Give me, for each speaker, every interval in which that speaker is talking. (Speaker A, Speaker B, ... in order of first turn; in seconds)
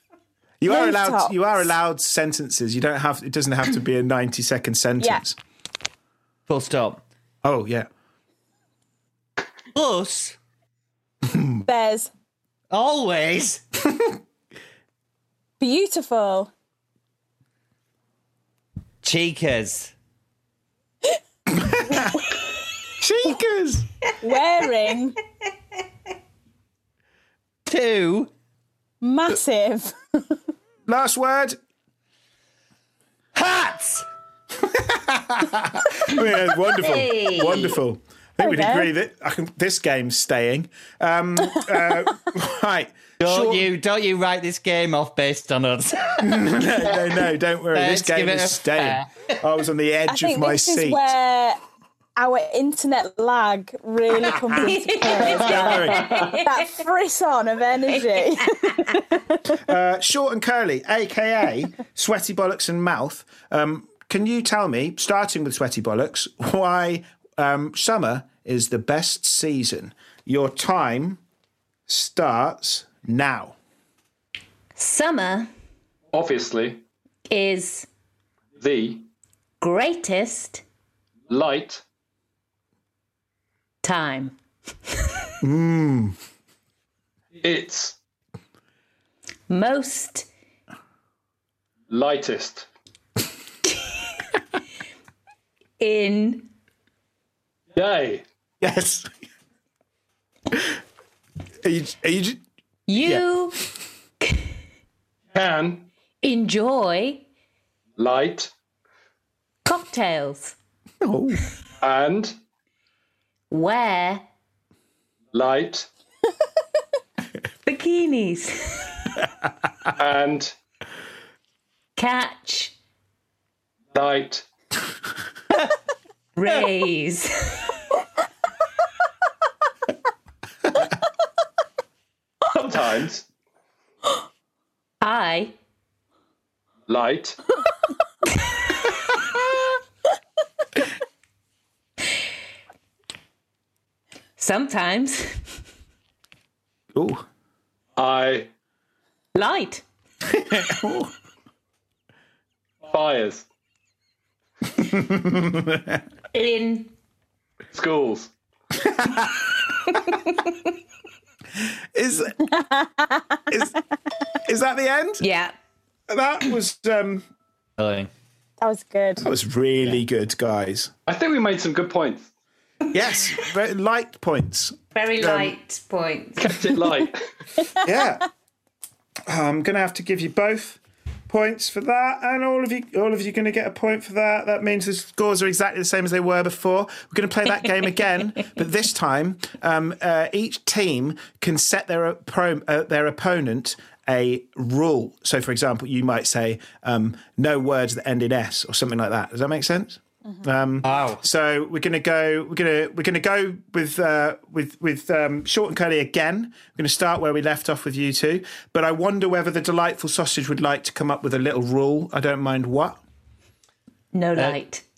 Speaker A: 0.6-5.4, 7.4-7.9, 11.3-11.6, 21.6-22.2, 23.0-23.9, 30.9-31.6, 34.7-43.7, 46.2-51.0, 55.2-56.3, 59.6-71.2, 71.9-73.5, 85.4-86.2, 98.6-99.1, 101.6-102.4, 103.0-103.2, 111.0-111.4, 146.9-147.2, 150.4-151.1, 154.8-156.0, 158.8-159.3, 161.9-162.4, 164.4-165.2, 166.1-167.2, 169.2-170.9, 172.9-175.5, 177.8-178.3, 179.3-213.0
Speaker B: 0.7-1.4, 11.7-12.1, 15.6-16.5, 24.2-25.2, 29.0-30.3, 38.4-38.9, 50.1-51.6, 52.1-59.6, 162.4-163.4, 168.6-169.3
Speaker C: 6.5-7.0, 9.7-10.3, 12.7-13.6, 19.0-19.9, 27.6-28.3, 33.3-34.0, 43.2-47.2, 47.7-49.2, 167.8-168.1, 200.8-201.2
Speaker D: 36.8-37.8, 54.6-56.7, 74.8-75.5, 77.3-77.9, 79.6-80.6, 83.8-84.3, 89.5-90.3, 95.8-96.5, 102.9-103.6, 104.2-104.5, 106.2-107.2, 109.6-110.5, 113.5-114.2, 117.6-119.0, 122.0-122.7, 126.3-127.7, 135.0-135.5, 144.4-145.4, 149.3-149.8, 156.3-156.9, 159.9-160.6, 165.2-165.5, 174.9-176.6, 214.1-214.8
Speaker E: 76.1-76.8, 78.6-79.1, 81.3-81.8, 87.4-88.0, 91.9-92.7, 97.7-98.2, 105.3-105.9, 108.0-108.5, 111.8-112.3, 115.3-115.9, 120.0-120.5, 123.9-124.5, 132.5-133.3, 136.9-137.4, 147.9-148.5, 152.9-153.4, 157.7-158.3, 171.1-172.3, 176.4-177.3